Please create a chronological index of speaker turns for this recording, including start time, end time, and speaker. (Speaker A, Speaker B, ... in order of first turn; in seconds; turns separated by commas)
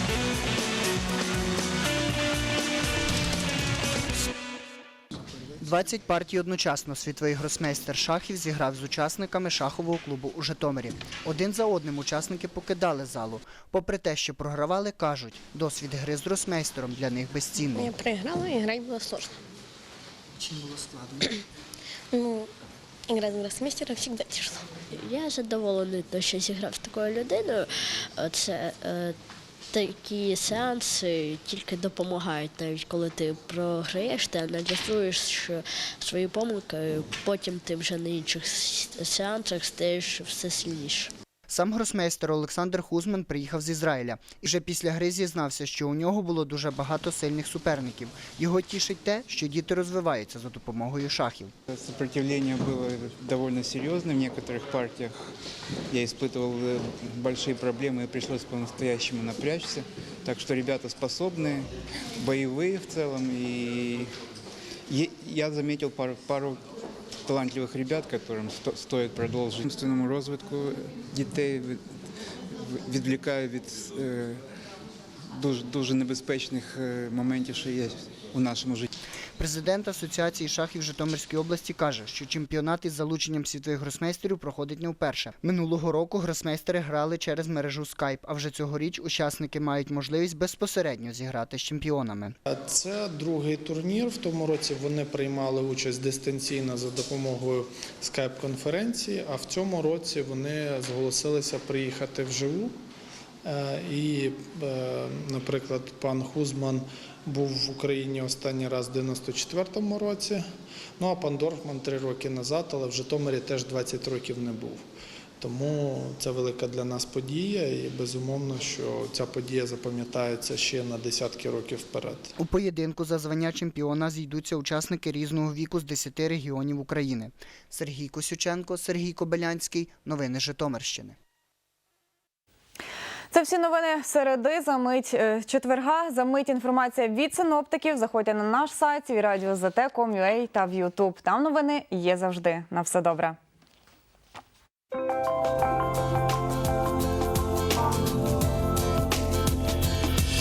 Speaker A: 5.6-18.0, Speaker B: 24.9-29.1, Speaker B: 29.7-41.1, Speaker A: 41.5-51.5, Speaker C: 51.7-55.2, Speaker C: 55.9-64.1, Speaker C: 64.9-66.6, Speaker C: 67.2-71.8, Speaker C: 72.5-74.4, Speaker C: 75.3-78.8, Speaker A: 79.4-92.3, Speaker D: 92.5-102.8, Speaker D: 103.4-110.5, Speaker D: 111.0-114.8, Speaker D: 115.4-122.3, Speaker A: 122.4-131.2, Speaker E: 133.3-143.4